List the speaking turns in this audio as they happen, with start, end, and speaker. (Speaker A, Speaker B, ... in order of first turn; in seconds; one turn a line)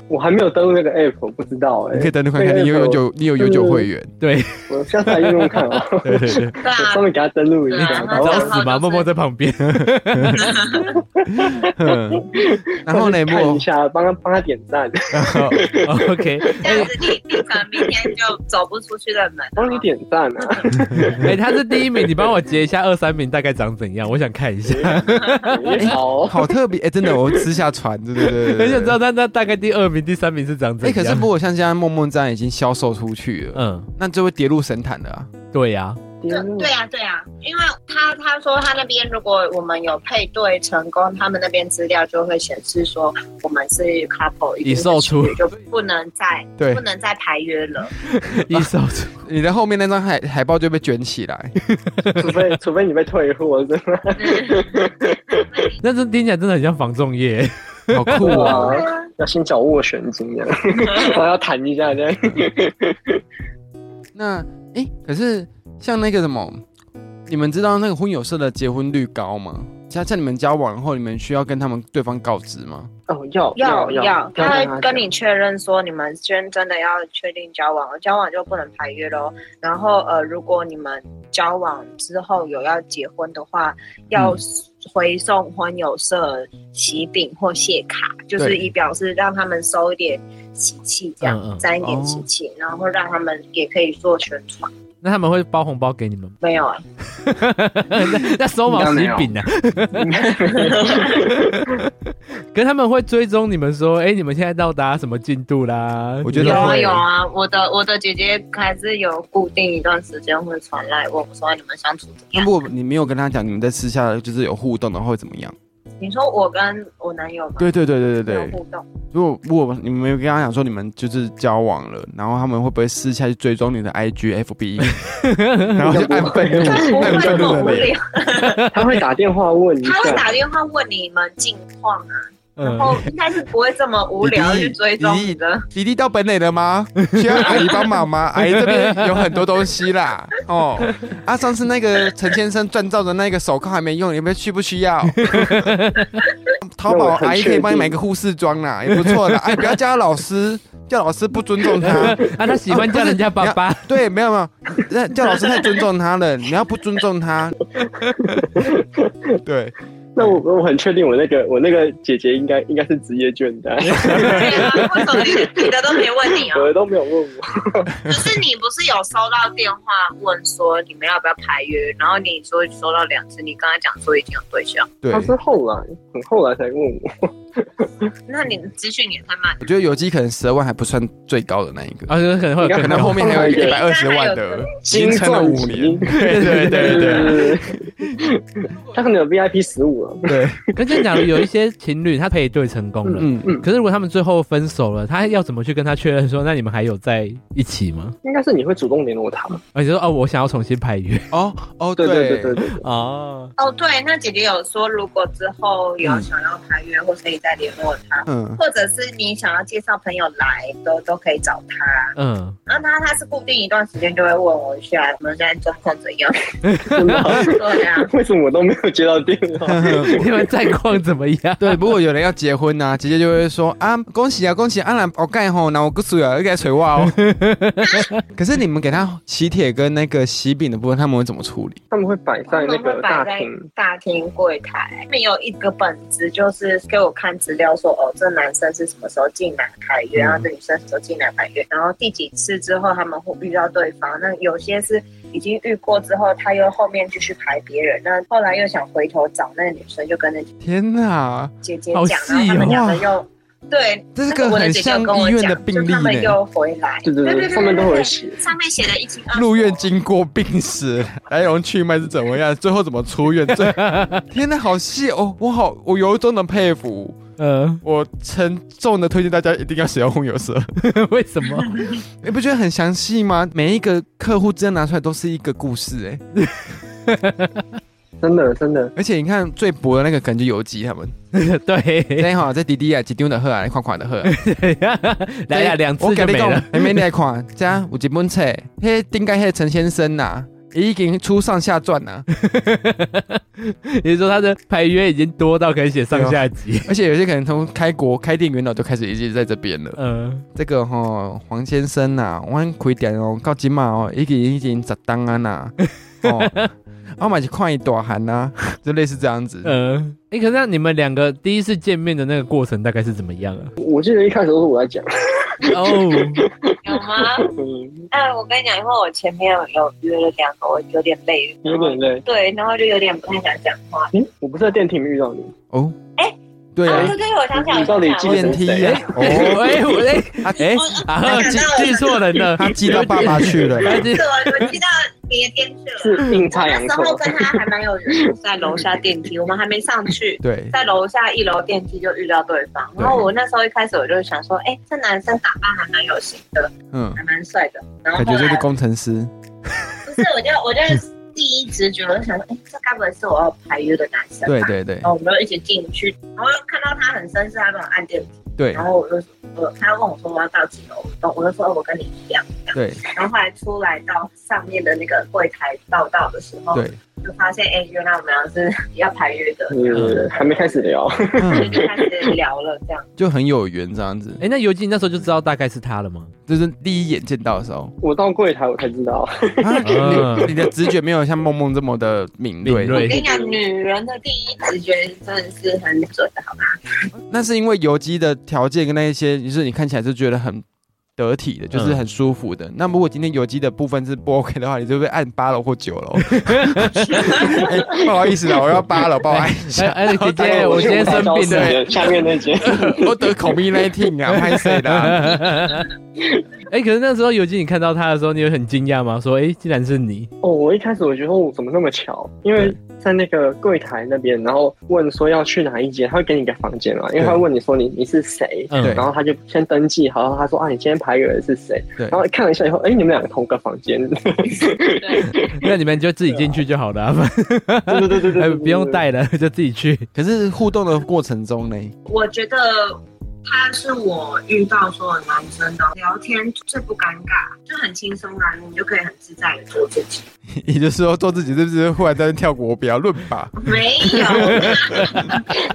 Speaker A: 0.1-3.9
Speaker B: 1.9-4.1
Speaker C: 4.2-5.6
Speaker A: 4.7-8.5
Speaker B: 6.0-6.6
Speaker D: 6.6-7.1
Speaker D: 7.7-9.1
Speaker C: 7.8-10.6
Speaker B: 9.8-10.4
Speaker D: 10.3-11.0
Speaker A: 11.2-18.1
Speaker B: 11.4-13.7
Speaker B: 15.1-15.7
Speaker C: 15.8-16.9
Speaker D: 16.6-19.9
Speaker A: 19.6-22.3
Speaker B: 20.9-21.3
Speaker C: 21.2-26.0
Speaker A: 24.6-26.5
Speaker B: 25.8-29.0
Speaker C: 28.3-31.3
Speaker B: 30.8-35.3
Speaker C: 33.5-33.9
Speaker C: 35.5-36.0
Speaker A: 36.2-36.7
Speaker D: 36.3-47.9
Speaker C: 44.6-45.4
Speaker C: 48.1-49.2
Speaker B: 48.4-51.5
Speaker C: 51.6-52.5
Speaker A: 52.2-55.6
Speaker D: 54.2-54.9
Speaker D: 55.4-55.8
Speaker C: 55.8-58.3
Speaker B: 57.9-58.7
Speaker A: 58.2-63.2
Speaker D: 58.2-59.1
Speaker B: 64.2-66.6
Speaker B: 67.3-72.9
Speaker A: 73.1-75.1
Speaker D: 73.6-94.7
Speaker B: 88.4-88.6
Speaker C: 91.2-91.7
Speaker B: 91.8-92.2
Speaker C: 95.0-96.3
Speaker D: 96.4-96.8
Speaker C: 97.1-100.3
Speaker A: 98.7-99.4
Speaker A: 99.9-101.8
Speaker D: 100.5-101.3
Speaker C: 101.2-101.8
Speaker C: 102.5-107.0
Speaker B: 106.2-106.9
Speaker D: 106.4-112.5
Speaker B: 112.3-115.5
Speaker D: 116.0-118.9
Speaker B: 117.6-118.6
Speaker B: 119.1-125.0
Speaker C: 124.8-125.8
Speaker B: 125.7-128.0
Speaker A: 125.8-127.9
Speaker D: 126.4-128.7
Speaker C: 128.4-128.7
Speaker A: 128.7-130.3
Speaker D: 129.8-135.7
Speaker C: 132.6-133.1
Speaker B: 134.2-145.8
Speaker C: 137.0-137.7
Speaker C: 138.4-139.4
Speaker C: 145.2-146.2
Speaker B: 146.6-157.6
Speaker A: 146.9-148.0
Speaker C: 148.9-149.5
Speaker C: 151.8-153.9
Speaker A: 151.9-152.3
Speaker A: 157.8-159.4
Speaker C: 158.1-158.4
Speaker B: 159.4-160.4
Speaker A: 160.2-168.0
Speaker C: 164.0-164.7
Speaker D: 164.1-166.7
Speaker D: 168.1-174.9
Speaker B: 175.0-175.3
Speaker A: 175.1-178.1
Speaker D: 178.3-179.6
Speaker B: 179.6-182.1
Speaker C: 182.1-183.4
Speaker A: 182.6-183.8
Speaker B: 182.8-188.1
Speaker D: 183.3-184.8
Speaker A: 184.9-191.2
Speaker C: 186.1-187.4
Speaker B: 190.3-190.6
Speaker C: 190.8-198.2
Speaker A: 193.1-193.7
Speaker B: 193.2-193.5
Speaker A: 198.2-199.6
Speaker C: 199.8-201.3
Speaker B: 201.3-202.6
Speaker A: 202.0-202.8
Speaker C: 202.8-203.5
Speaker D: 203.6-212.2
Speaker B: 208.3-208.6
Speaker C: 212.2-212.6
Speaker D: 212.7-216.6
Speaker C: 216.6-217.4
Speaker A: 216.8-220.5
Speaker D: 217.2-218.1
Speaker B: 219.7-220.2
Speaker C: 220.0-221.8
Speaker B: 221.6-227.2
Speaker C: 227.0-228.2
Speaker B: 228.3-231.8
Speaker A: 231.9-233.6
Speaker D: 232.5-250.5
Speaker B: 240.2-240.5
Speaker B: 250.6-251.5
Speaker D: 251.6-259.9
Speaker C: 251.9-252.8
Speaker B: 252.5-253.1
Speaker B: 254.2-256.4
Speaker A: 257.0-258.4
Speaker B: 259.3-267.2
Speaker C: 263.5-264.2
Speaker C: 267.4-267.8
Speaker B: 267.8-270.7
Speaker C: 270.8-271.9
Speaker B: 272.2-276.2
Speaker C: 276.4-277.8
Speaker A: 278.2-278.9
Speaker B: 279.0-281.1
Speaker C: 281.3-282.3
Speaker B: 282.2-284.3
Speaker C: 284.2-287.0
Speaker B: 285.5-292.3
Speaker C: 292.3-296.9
Speaker B: 296.1-300.0
Speaker C: 300.0-300.4
Speaker B: 300.6-306.7
Speaker C: 306.2-306.7
Speaker B: 307.2-309.7
Speaker C: 309.6-313.7
Speaker A: 313.8-318.1
Speaker C: 315.6-316.4
Speaker D: 316.9-317.5
Speaker D: 318.1-324.1
Speaker A: 321.6-322.2
Speaker A: 324.1-325.5
Speaker B: 325.7-326.0
Speaker D: 326.2-329.0
Speaker B: 326.8-327.2
Speaker A: 326.9-329.5
Speaker B: 328.2-331.8
Speaker C: 328.8-334.7
Speaker D: 330.6-332.4
Speaker B: 332.6-334.1
Speaker A: 332.6-333.9
Speaker D: 333.9-348.7
Speaker A: 336.0-338.9
Speaker B: 340.4-340.7
Speaker B: 343.0-343.3
Speaker B: 346.9-347.2
Speaker B: 348.2-349.3
Speaker D: 350.1-370.8
Speaker B: 354.5-355.1
Speaker B: 358.6-358.9
Speaker B: 362.7-363.0
Speaker A: 369.7-372.3
Speaker C: 369.9-370.2
Speaker B: 371.4-371.8
Speaker D: 371.5-373.1
Speaker B: 373.2-374.4
Speaker C: 374.4-376.3
Speaker B: 376.5-377.9
Speaker A: 378.0-380.7
Speaker B: 379.6-383.1
Speaker C: 379.8-380.5
Speaker C: 382.6-383.2
Speaker D: 382.9-387.1
Speaker A: 382.9-383.6
Speaker B: 387.2-390.6
Speaker B: 391.2-405.5
Speaker C: 391.7-392.0
Speaker C: 396.2-397.4
Speaker D: 397.1-397.8
Speaker A: 397.4-398.1
Speaker C: 399.2-401.9
Speaker A: 400.4-403.6
Speaker C: 404.3-405.9
Speaker A: 406.2-406.4
Speaker C: 406.7-410.3
Speaker A: 410.4-425.7
Speaker C: 418.7-419.1
Speaker B: 418.8-419.1
Speaker D: 425.0-425.4
Speaker C: 425.5-430.1
Speaker A: 426.3-426.6
Speaker A: 427.9-429.1
Speaker B: 430.1-431.9
Speaker D: 432.1-440.3
Speaker B: 440.6-443.6
Speaker D: 443.6-445.6
Speaker B: 444.1-445.4
Speaker C: 444.9-445.2